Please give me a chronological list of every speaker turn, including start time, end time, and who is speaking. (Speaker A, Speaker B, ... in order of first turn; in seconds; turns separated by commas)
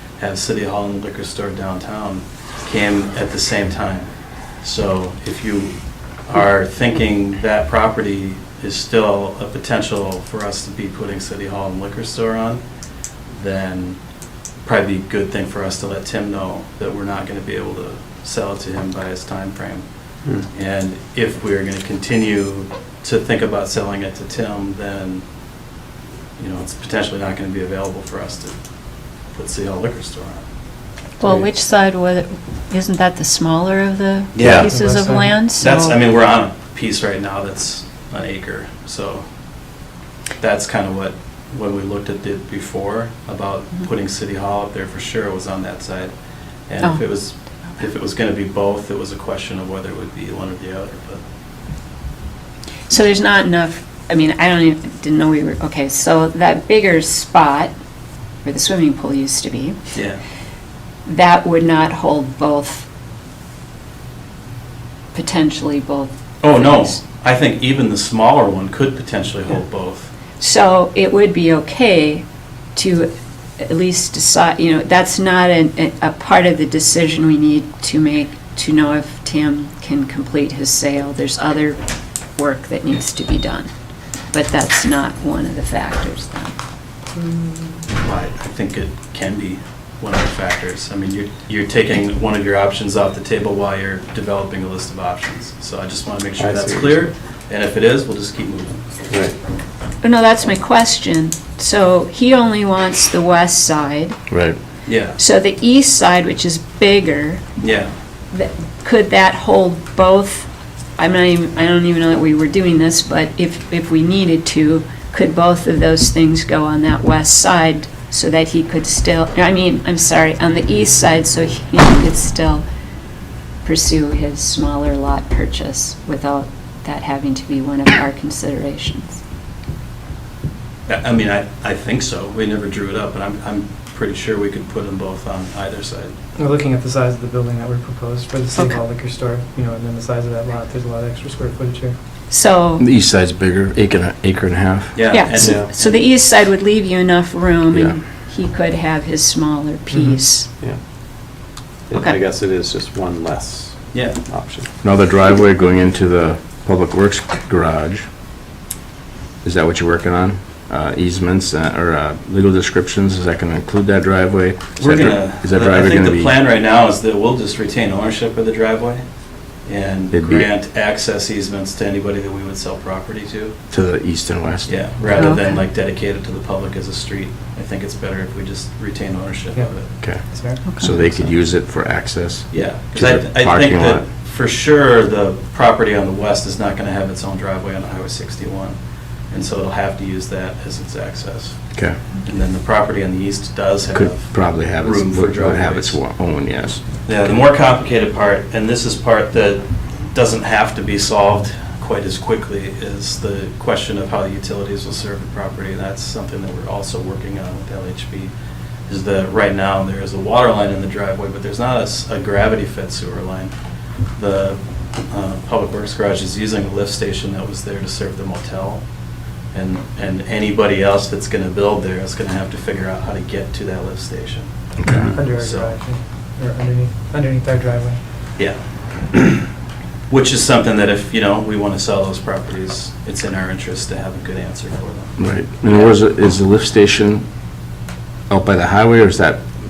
Speaker A: 0.2-12.6, Speaker A: 13.3-25.2, Speaker A: 26.4-30.4, Speaker B: 31.2-36.0, Speaker A: 34.3-34.8, Speaker C: 34.4-34.7, Speaker D: 34.6-35.3, Speaker A: 35.6-39.2, Speaker A: 40.4-51.2, Speaker B: 52.9-57.7, Speaker B: 58.4-59.9, Speaker A: 59.9-60.2, Speaker B: 61.0-62.9, Speaker B: 65.1-66.9, Speaker A: 66.4-70.1, Speaker B: 70.4-81.8, Speaker B: 82.3-83.7, Speaker B: 84.3-86.5, Speaker A: 88.0-98.8, Speaker E: 96.4-97.1, Speaker E: 99.1-99.3, Speaker B: 100.0-104.2, Speaker C: 104.3-104.6, Speaker A: 104.8-105.2, Speaker B: 105.2-107.5, Speaker A: 107.6-107.9, Speaker B: 108.3-122.6, Speaker B: 123.6-129.2, Speaker A: 130.9-136.1, Speaker D: 136.4-142.0, Speaker B: 142.3-142.8, Speaker C: 142.8-145.3, Speaker A: 144.9-146.1, Speaker B: 145.1-150.5, Speaker E: 145.4-145.7, Speaker C: 147.7-148.0, Speaker D: 149.9-150.2, Speaker E: 150.5-154.7, Speaker A: 153.9-154.2, Speaker C: 154.8-158.1, Speaker C: 159.4-166.3, Speaker A: 164.8-169.1, Speaker A: 169.6-173.6, Speaker C: 170.1-170.5, Speaker C: 173.7-175.0, Speaker A: 174.6-179.9, Speaker B: 175.2-175.6, Speaker D: 179.5-181.1, Speaker C: 180.0-184.1, Speaker B: 180.6-180.9, Speaker A: 182.5-196.0, Speaker C: 191.7-192.0, Speaker C: 193.9-196.8, Speaker A: 197.0-208.3, Speaker A: 208.9-218.9, Speaker A: 219.5-225.7, Speaker C: 224.8-225.1, Speaker D: 224.8-228.0, Speaker A: 228.4-229.4, Speaker A: 230.1-236.0, Speaker C: 235.2-237.3, Speaker C: 238.3-239.5